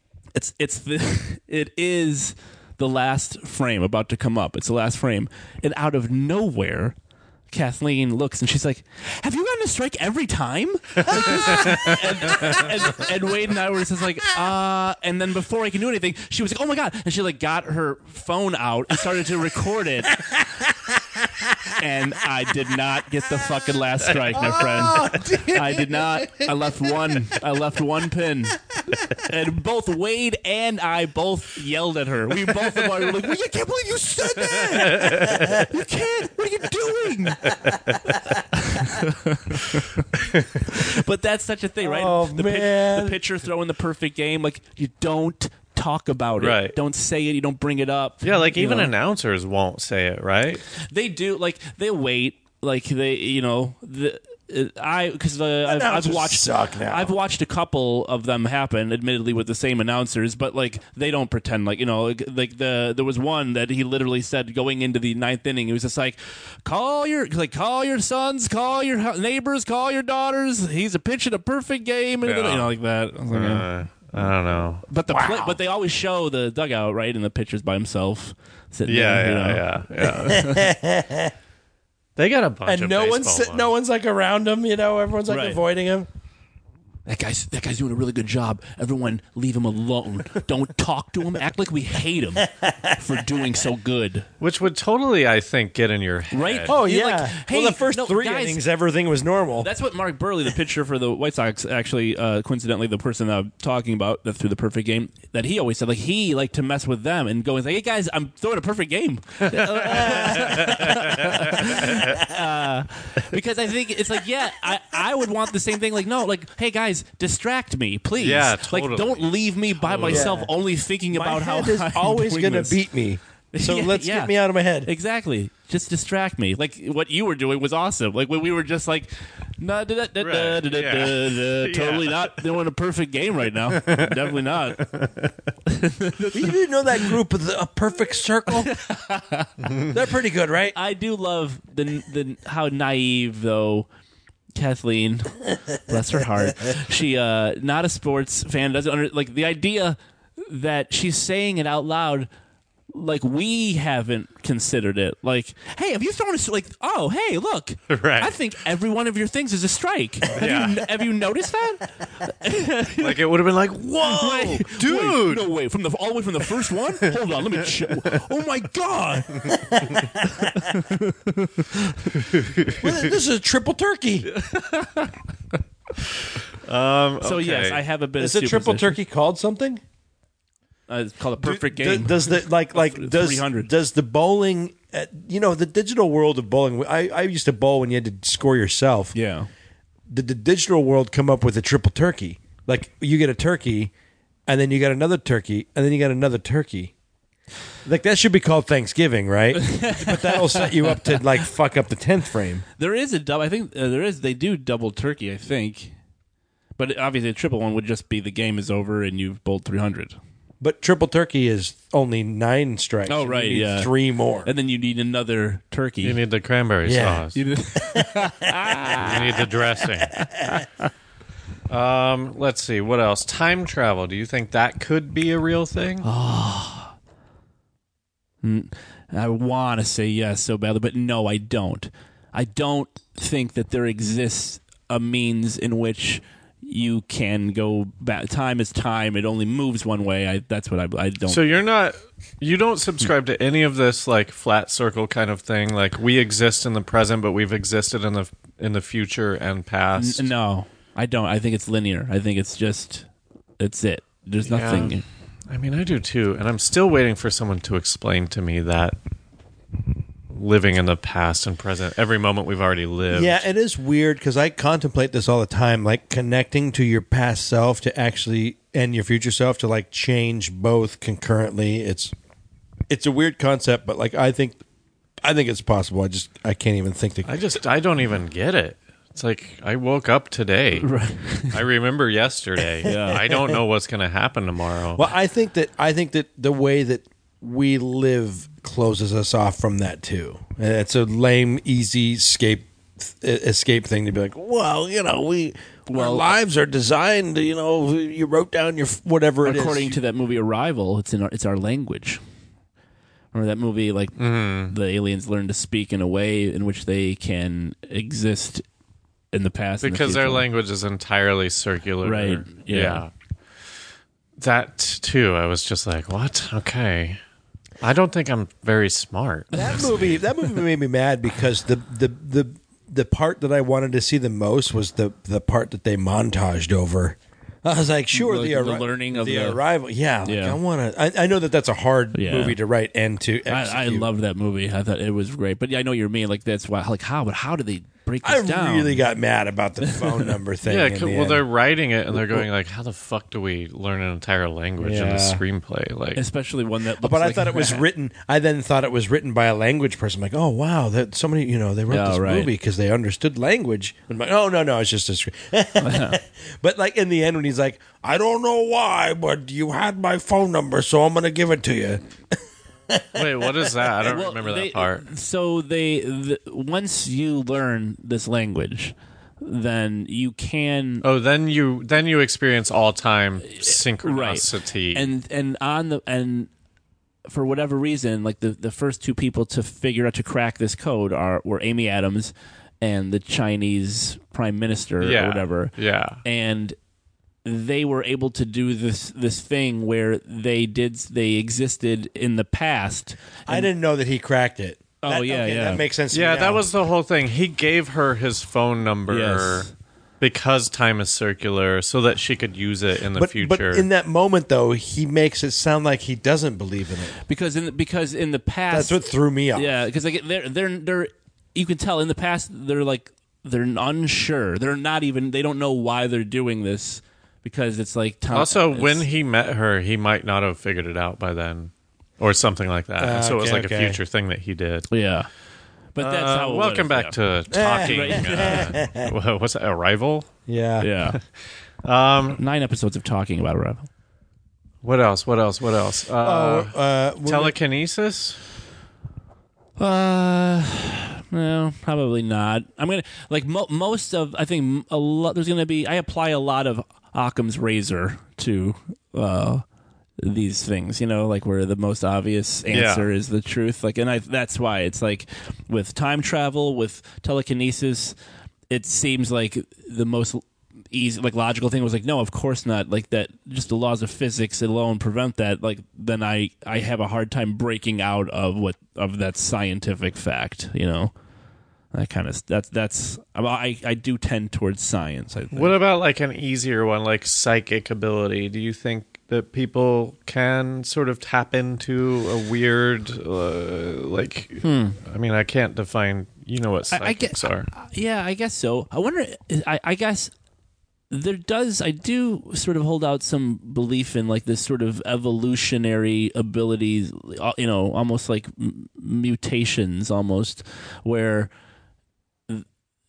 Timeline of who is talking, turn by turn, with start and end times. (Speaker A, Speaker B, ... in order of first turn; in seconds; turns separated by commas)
Speaker A: 0.3-7.0, Speaker A: 7.5-20.4, Speaker A: 21.7-37.6, Speaker B: 24.4-26.7, Speaker C: 34.6-35.4, Speaker C: 37.5-38.0, Speaker A: 38.5-40.0, Speaker C: 40.2-40.5, Speaker A: 40.7-48.9, Speaker B: 41.8-43.2, Speaker C: 46.4-46.8, Speaker C: 48.2-50.6, Speaker A: 50.8-73.7, Speaker B: 55.6-57.1, Speaker C: 72.2-72.7, Speaker C: 73.3-74.8, Speaker A: 74.8-80.7, Speaker B: 75.1-75.6, Speaker C: 78.9-80.4, Speaker B: 80.2-81.3, Speaker C: 82.2-83.7, Speaker B: 82.7-86.1, Speaker A: 85.3-85.6, Speaker A: 87.1-94.3, Speaker B: 92.4-93.5, Speaker C: 94.4-96.8, Speaker A: 96.3-98.6, Speaker B: 96.7-99.7, Speaker A: 99.6-122.8, Speaker C: 109.5-112.2, Speaker B: 110.3-110.6, Speaker C: 118.2-120.3, Speaker B: 120.0-120.5, Speaker B: 121.1-124.9, Speaker A: 123.5-134.9, Speaker C: 130.2-132.4, Speaker C: 133.7-135.3, Speaker A: 135.7-137.1, Speaker B: 136.3-138.8, Speaker A: 138.6-139.7, Speaker B: 139.9-140.8, Speaker A: 140.7-143.9, Speaker A: 144.6-152.3, Speaker A: 152.9-163.2, Speaker C: 157.9-158.4, Speaker C: 160.3-160.8, Speaker C: 163.0-165.5, Speaker A: 164.0-172.2, Speaker B: 169.6-170.5, Speaker C: 172.2-173.0, Speaker B: 172.7-174.3, Speaker A: 174.3-175.2, Speaker C: 176.6-177.8, Speaker A: 177.2-179.0, Speaker B: 178.2-179.8, Speaker A: 180.9-183.7, Speaker B: 181.4-189.1, Speaker A: 189.1-189.5, Speaker B: 190.1-193.9, Speaker B: 194.5-196.9, Speaker B: 197.8-202.6, Speaker A: 199.6-201.2, Speaker A: 202.8-205.9, Speaker A: 206.8-210.2, Speaker B: 210.6-214.5, Speaker A: 213.1-216.2, Speaker C: 216.0-217.4, Speaker B: 216.8-217.2, Speaker A: 217.3-219.5, Speaker B: 217.8-218.5, Speaker C: 219.0-220.2, Speaker B: 220.2-220.6, Speaker C: 221.7-226.1, Speaker A: 226.0-226.9, Speaker A: 228.4-241.4, Speaker C: 241.3-250.3, Speaker A: 250.0-253.1, Speaker A: 253.6-255.0, Speaker C: 254.5-255.0, Speaker C: 255.5-259.0, Speaker C: 260.3-263.4, Speaker B: 263.1-272.1, Speaker B: 272.9-274.6, Speaker B: 275.2-277.4, Speaker C: 277.3-285.1, Speaker A: 280.8-281.6, Speaker A: 282.8-283.5, Speaker B: 285.0-300.0, Speaker A: 295.9-296.3, Speaker A: 299.4-302.2, Speaker A: 303.3-308.6, Speaker C: 304.2-304.7, Speaker A: 309.3-310.5, Speaker C: 309.8-313.1, Speaker A: 312.0-313.1, Speaker C: 314.4-317.2, Speaker C: 317.8-320.2, Speaker B: 319.5-334.1, Speaker A: 328.1-329.6, Speaker A: 330.2-330.6, Speaker A: 332.1-332.6, Speaker A: 333.5-339.0, Speaker B: 338.2-341.4, Speaker A: 339.8-340.3, Speaker C: 340.7-346.2, Speaker B: 342.1-342.5, Speaker B: 344.8-345.4, Speaker A: 346.2-347.9, Speaker B: 347.0-362.0, Speaker A: 351.9-352.5, Speaker A: 355.8-356.2, Speaker B: 362.9-363.8, Speaker C: 363.1-365.1, Speaker A: 364.0-371.0, Speaker C: 371.0-375.1, Speaker A: 373.5-376.5, Speaker A: 377.3-385.7, Speaker C: 385.0-386.2, Speaker A: 386.2-386.8, Speaker A: 387.4-393.7, Speaker B: 393.5-396.6, Speaker A: 395.0-395.8, Speaker C: 396.1-399.7, Speaker A: 399.1-399.7, Speaker C: 400.2-403.9, Speaker B: 403.1-407.2, Speaker A: 407.3-409.0, Speaker B: 408.7-409.8, Speaker A: 409.5-419.1, Speaker C: 418.3-424.9, Speaker B: 423.0-424.0, Speaker A: 424.9-425.3, Speaker A: 425.9-428.8, Speaker C: 426.0-430.3, Speaker B: 427.5-429.1, Speaker B: 430.5-430.9, Speaker A: 430.8-431.2, Speaker C: 431.8-432.4, Speaker A: 432.4-433.9, Speaker C: 434.8-438.4, Speaker B: 436.2-437.6, Speaker A: 439.8-449.6, Speaker A: 450.2-458.2, Speaker C: 452.7-453.1, Speaker A: 458.7-471.1, Speaker A: 471.9-475.8, Speaker C: 475.5-487.7, Speaker A: 484.6-485.0, Speaker A: 486.9-490.3, Speaker A: 491.1-501.5